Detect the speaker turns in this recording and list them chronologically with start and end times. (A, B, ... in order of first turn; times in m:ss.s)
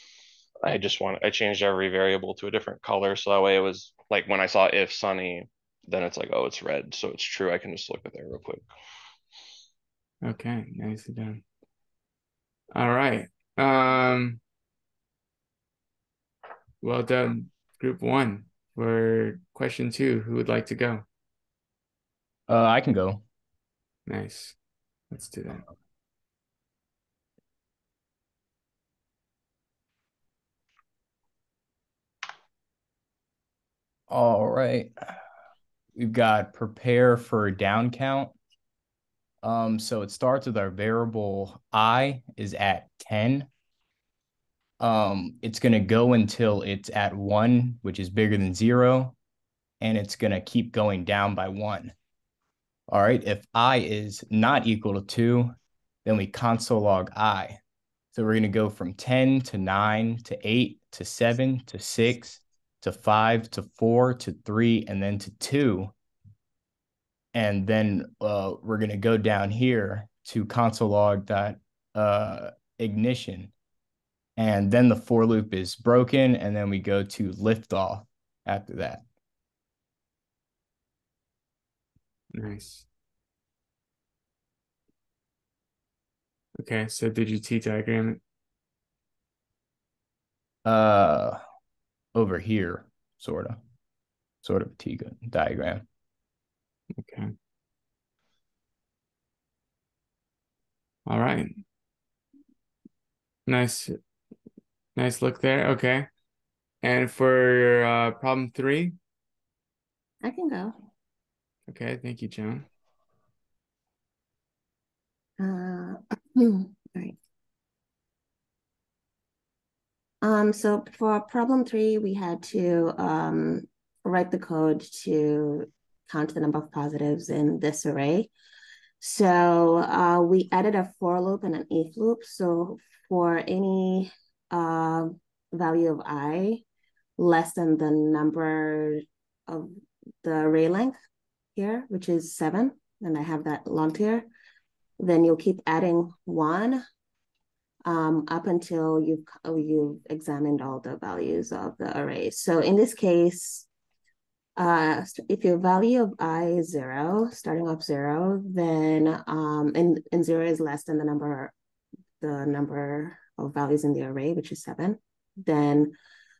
0:00.6-0:08.7 A
0:10.2-0:11.4 B
0:12.7-0:14.4 B
0:16.8-0:21.0 B
0:22.5-0:23.2 C
0:24.1-0:24.6 B
0:25.1-0:25.6 B
0:34.1-0:34.9 C
0:36.0-0:38.3 C
0:39.4-0:43.5 C
0:44.8-0:49.2 C
0:49.8-0:51.9 C
0:52.9-0:57.6 C
0:58.1-1:05.9 C
1:07.4-1:13.5 C
1:14.4-1:19.0 C
1:22.3-1:22.9 B
1:26.6-1:28.2 B
1:30.6-1:31.4 C
1:32.1-1:33.6 C
1:34.4-1:35.8 C
1:37.0-1:37.3 B
1:41.1-1:41.5 B
1:43.5-1:43.9 B
1:45.0-1:46.1 B
1:46.8-1:49.0 B
1:50.2-1:50.7 D
1:51.7-1:52.6 B
1:55.4-1:57.2 D
2:00.2-2:08.3 D
2:09.0-2:16.6 D
2:17.2-2:19.7 D
2:20.2-2:21.0 D
2:21.6-2:24.3 D
2:25.0-2:26.8 D
2:27.8-2:33.7 D
2:34.6-2:41.5 D
2:42.2-2:45.9 D